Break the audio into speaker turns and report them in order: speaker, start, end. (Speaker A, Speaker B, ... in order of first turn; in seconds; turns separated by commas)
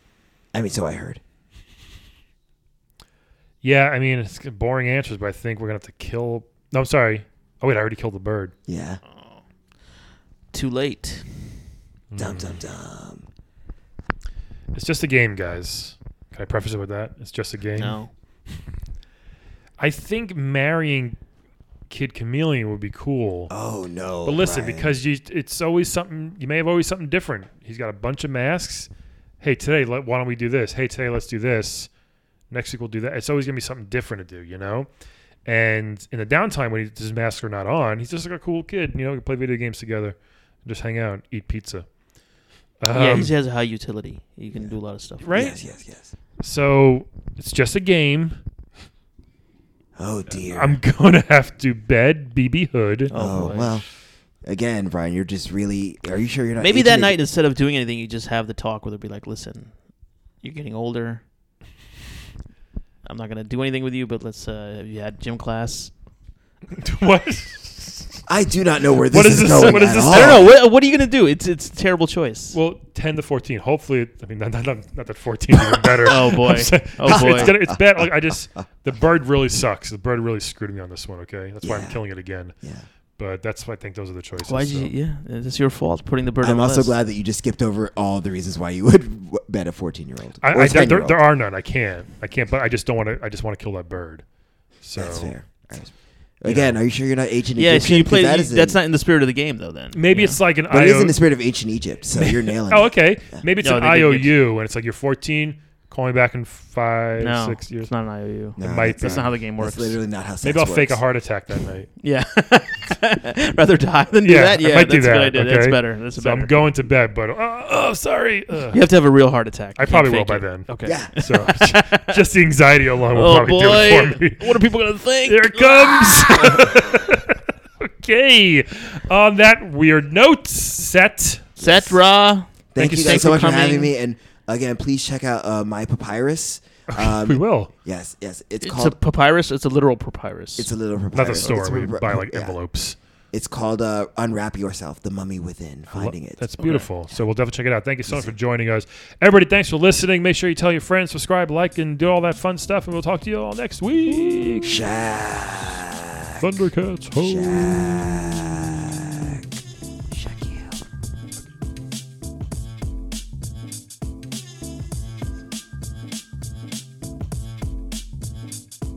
Speaker A: 0.5-1.2, Speaker B: 3.6-8.5, Speaker A: 8.7-9.0, Speaker C: 9.1-9.4, Speaker C: 10.5-11.5, Speaker B: 12.1-12.6, Speaker A: 12.2-13.3, Speaker B: 14.7-18.0, Speaker C: 17.8-18.1, Speaker B: 19.8-21.2, Speaker B: 21.9-23.5, Speaker A: 23.5-25.0, Speaker B: 24.2-28.9, Speaker B: 29.4-31.9, Speaker B: 32.5-34.9, Speaker B: 35.5-41.9, Speaker B: 42.8-43.4, Speaker C: 42.9-45.3, Speaker B: 45.2-45.6, Speaker A: 45.3-46.1, Speaker B: 46.4-48.4, Speaker A: 50.0-50.8, Speaker B: 50.4-53.1, Speaker C: 53.1-53.7, Speaker A: 53.1-53.9, Speaker A: 54.4-57.2, Speaker C: 56.6-59.7, Speaker C: 60.4-61.2, Speaker C: 63.0-65.9, Speaker B: 66.8-68.2, Speaker A: 68.3-70.5, Speaker B: 69.1-70.5, Speaker C: 69.6-72.6, Speaker B: 72.5-82.5, Speaker A: 75.6-75.9, Speaker C: 76.0-77.6, Speaker A: 77.0-78.6, Speaker A: 81.6-82.0, Speaker A: 82.6-82.9, Speaker B: 83.2-84.9, Speaker C: 84.4-87.0, Speaker A: 86.4-91.2, Speaker B: 90.4-94.2, Speaker B: 94.8-95.3, Speaker A: 95.0-98.8, Speaker B: 96.5-96.8, Speaker C: 97.6-100.4, Speaker B: 99.9-101.2, Speaker A: 100.7-103.4, Speaker B: 102.2-107.9, Speaker C: 103.6-104.3, Speaker C: 107.2-110.0, Speaker B: 108.6-109.3, Speaker A: 108.6-111.0, Speaker B: 110.4-111.9, Speaker C: 112.0-116.5, Speaker B: 114.2-118.8, Speaker C: 118.7-122.2, Speaker B: 119.8-124.6, Speaker A: 120.8-121.1, Speaker C: 123.1-126.8, Speaker B: 125.3-131.9, Speaker C: 131.6-133.9, Speaker A: 132.7-139.0, Speaker B: 132.8-133.3, Speaker B: 136.9-137.7, Speaker C: 138.6-140.7, Speaker A: 140.6-142.6, Speaker B: 141.1-143.0, Speaker C: 141.4-141.9, Speaker A: 143.3-146.4, Speaker B: 145.9-154.7, Speaker C: 146.6-146.9, Speaker A: 148.1-148.3, Speaker A: 154.6-156.5, Speaker B: 156.4-157.9, Speaker A: 157.2-159.5, Speaker A: 160.1-160.8